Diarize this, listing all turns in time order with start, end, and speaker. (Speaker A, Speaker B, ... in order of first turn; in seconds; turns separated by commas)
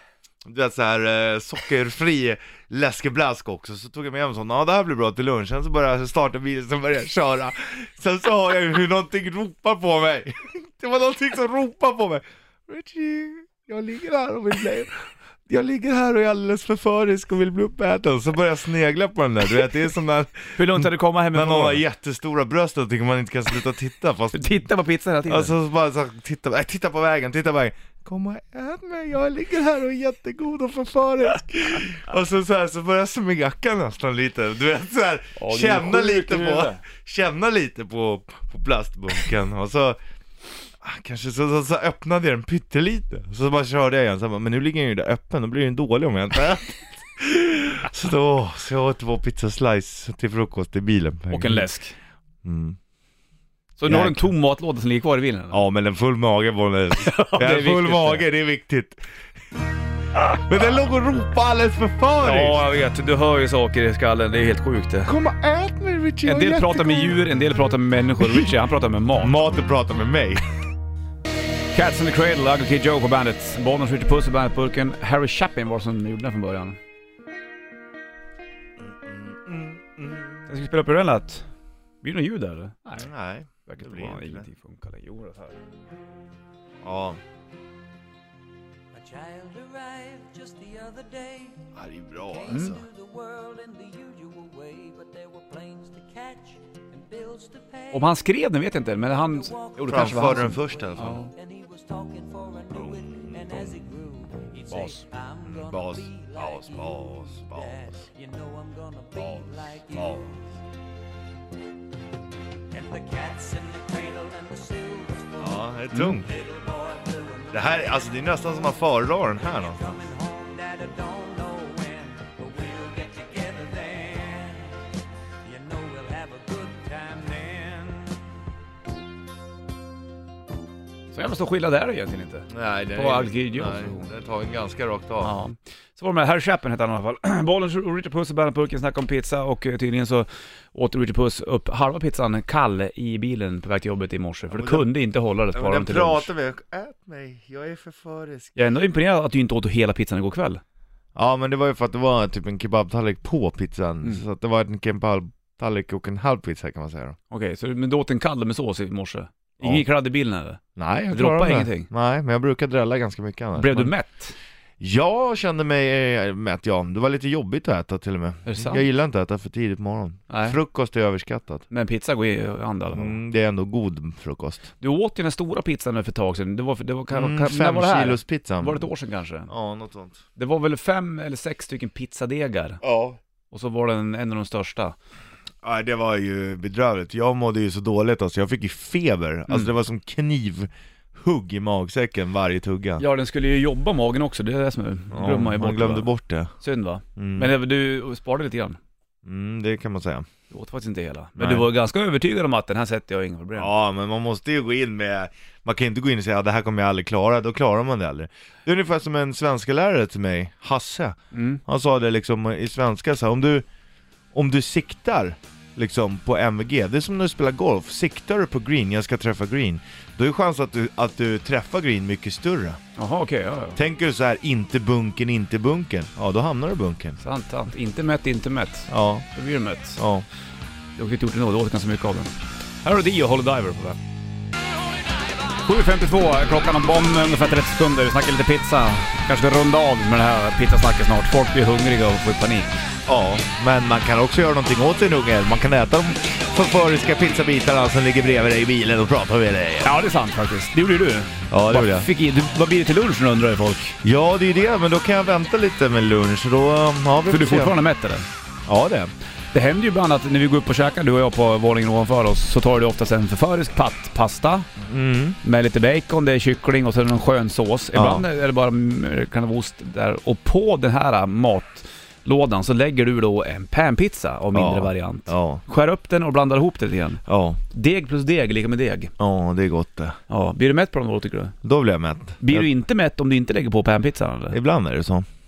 Speaker A: 0.4-24.6, Speaker B: 20.6-21.8, Speaker B: 24.3-25.5, Speaker A: 25.3-40.0, Speaker B: 35.4-36.8, Speaker A: 40.8-51.7, Speaker B: 51.3-52.0, Speaker A: 52.4-52.8, Speaker B: 53.8-55.6, Speaker A: 53.9-54.3, Speaker A: 55.5-59.1, Speaker B: 57.0-58.2, Speaker A: 60.3-62.6, Speaker B: 62.2-65.1, Speaker A: 65.1-67.2, Speaker B: 66.2-69.5, Speaker A: 68.2-68.5, Speaker A: 69.2-70.5, Speaker B: 71.7-76.8, Speaker A: 78.8-80.5, Speaker B: 80.5-81.5, Speaker B: 82.0-83.1, Speaker A: 83.0-84.5, Speaker B: 83.7-85.6, Speaker A: 86.8-87.2, Speaker C: 88.9-98.3, Speaker A: 91.7-92.8, Speaker B: 92.5-92.8, Speaker B: 97.9-101.3, Speaker C: 98.8-110.5, Speaker A: 99.8-101.2, Speaker A: 102.8-103.8, Speaker B: 104.7-105.0, Speaker A: 105.5-108.0, Speaker A: 109.2-110.3, Speaker C: 112.7-124.8, Speaker A: 115.4-116.3, Speaker A: 117.5-120.0, Speaker C: 125.4-128.2, Speaker B: 131.1-134.1, Speaker A: 132.5-135.3, Speaker B: 135.2-146.3, Speaker A: 144.5-144.9, Speaker A: 145.5-148.6, Speaker B: 148.6-150.6, Speaker A: 151.2-157.2, Speaker B: 157.3-160.6, Speaker A: 160.8-163.9, Speaker B: 161.1-161.9, Speaker B: 163.6-164.3, Speaker A: 164.8-171.7, Speaker B: 168.4-168.8, Speaker B: 170.3-170.6, Speaker B: 171.7-173.2, Speaker A: 172.9-174.7, Speaker B: 174.8-179.5, Speaker A: 177.1-178.9, Speaker A: 179.5-180.2, Speaker B: 180.4-182.8, Speaker A: 182.8-183.2, Speaker B: 183.5-185.0, Speaker A: 185.6-193.0, Speaker B: 193.0-196.1, Speaker A: 195.1-196.5, Speaker B: 196.6-198.8, Speaker A: 197.2-197.5, Speaker A: 199.2-200.3, Speaker B: 200.5-203.7, Speaker A: 201.4-201.7, Speaker A: 203.6-213.7, Speaker B: 211.3-211.6, Speaker A: 214.3-222.8, Speaker B: 223.0-223.8, Speaker A: 223.8-227.2, Speaker B: 227.2-230.0, Speaker A: 228.9-229.3, Speaker A: 230.0-230.3, Speaker B: 231.0-234.0, Speaker B: 235.6-242.7, Speaker A: 243.1-250.0, Speaker B: 249.8-254.0, Speaker A: 251.5-252.1, Speaker A: 254.0-257.8, Speaker B: 257.3-258.3, Speaker A: 258.7-259.1, Speaker B: 259.5-264.7, Speaker A: 264.8-265.4, Speaker B: 265.4-279.1, Speaker A: 267.9-268.3, Speaker A: 274.5-275.6, Speaker A: 277.3-277.6, Speaker A: 279.2-280.2, Speaker B: 280.3-281.6, Speaker A: 281.6-282.7, Speaker B: 282.4-284.6, Speaker A: 284.5-285.3